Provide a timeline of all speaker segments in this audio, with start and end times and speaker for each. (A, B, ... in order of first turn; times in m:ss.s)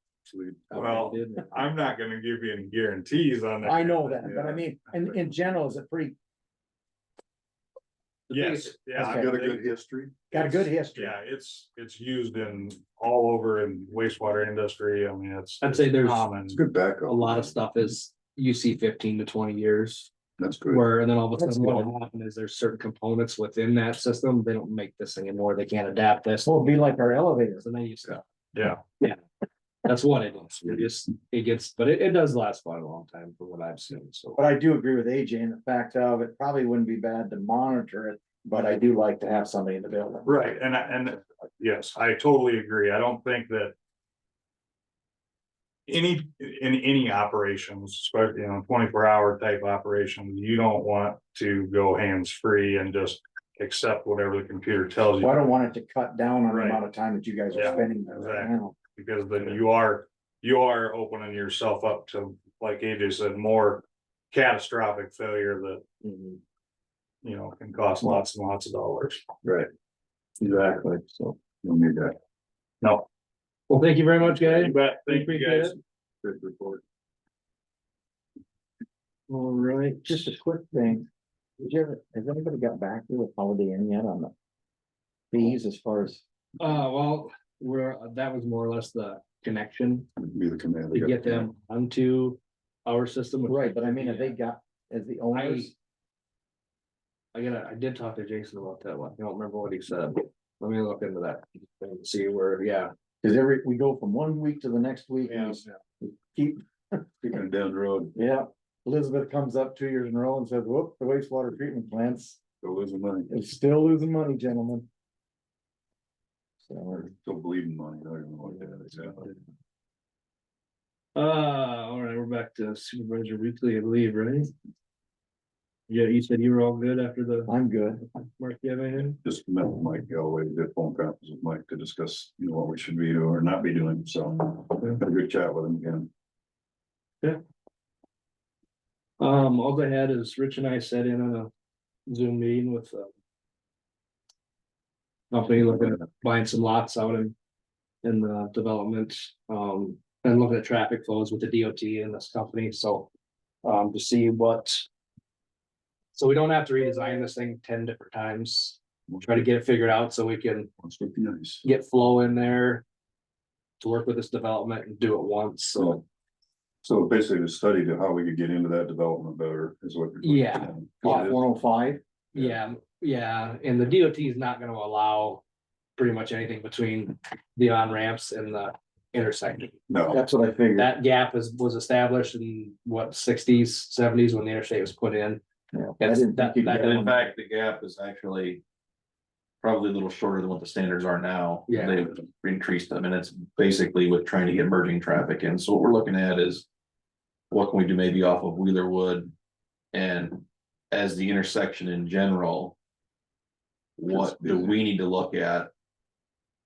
0:00.3-0:01.1 A
0:00.7-0:01.7 B
0:00.8-0:04.3 C
0:03.6-0:06.2 D
0:04.2-0:04.6 A
0:08.3-0:08.8 B
0:08.3-0:09.6 C
0:09.0-0:09.5 D
0:09.0-0:10.2 A
0:10.3-0:11.2 D
0:10.3-0:16.6 C
0:15.6-0:16.3 B
0:16.5-0:17.6 A
0:17.0-0:20.1 B
0:20.4-0:20.9 A
0:20.6-0:26.6 B
0:21.4-0:21.9 D
0:26.4-0:27.6 D
0:27.6-0:28.2 B
0:28.6-0:28.8 C
0:29.8-0:34.4 B
0:34.4-0:40.5 D
0:40.3-0:43.7 C
0:45.9-0:55.4 C
0:55.2-0:58.8 D
0:56.5-0:56.8 C
0:57.5-1:05.8 C
1:06.0-1:06.4 B
1:07.2-1:09.2 C
1:09.4-1:09.7 A
1:10.4-1:12.2 A
1:13.7-1:15.8 B
1:14.6-1:15.8 C
1:16.2-1:16.8 A
1:19.3-1:20.4 B
1:20.1-1:21.1 D
1:21.6-1:24.3 D
1:25.3-1:26.2 D
1:26.6-1:30.1 B
1:30.2-1:31.5 A
1:30.9-1:34.4 B
1:33.5-1:35.7 D
1:35.3-1:35.7 B
1:37.3-1:42.9 B
1:43.2-1:47.1 D
1:45.3-1:45.8 B
1:47.2-1:48.2 A
1:48.2-1:52.4 D
1:52.6-1:53.3 A
1:53.3-1:54.9 D
1:56.6-1:57.1 D
1:57.2-1:59.4 A
2:01.2-2:04.5 B
2:05.9-2:07.5 B
2:07.5-2:08.0 D
2:08.2-2:09.2 B
2:09.2-2:16.1 A
2:19.2-2:21.5 B
2:22.1-2:23.1 B
2:25.3-2:27.4 B
2:28.0-2:33.1 B
2:33.6-2:34.9 B
2:36.1-2:40.7 B
2:39.1-2:39.5 A
2:40.8-2:41.7 A
2:41.6-2:42.8 B
2:43.8-2:46.0 B
2:45.8-2:46.0 A
2:46.8-2:51.4 A
2:50.2-2:51.3 B
2:51.0-2:52.0 D
2:52.3-2:55.4 B
2:56.0-2:59.8 B
2:59.9-3:00.2 A
3:00.1-3:00.9 D
3:00.8-3:05.4 B
3:05.7-3:07.3 D
3:06.0-3:07.1 B
3:06.7-3:08.6 E
3:09.6-3:16.7 E
3:11.7-3:12.1 B
3:17.5-3:19.3 E
3:19.9-3:22.8 E
3:24.0-3:25.7 E
3:24.1-3:24.8 A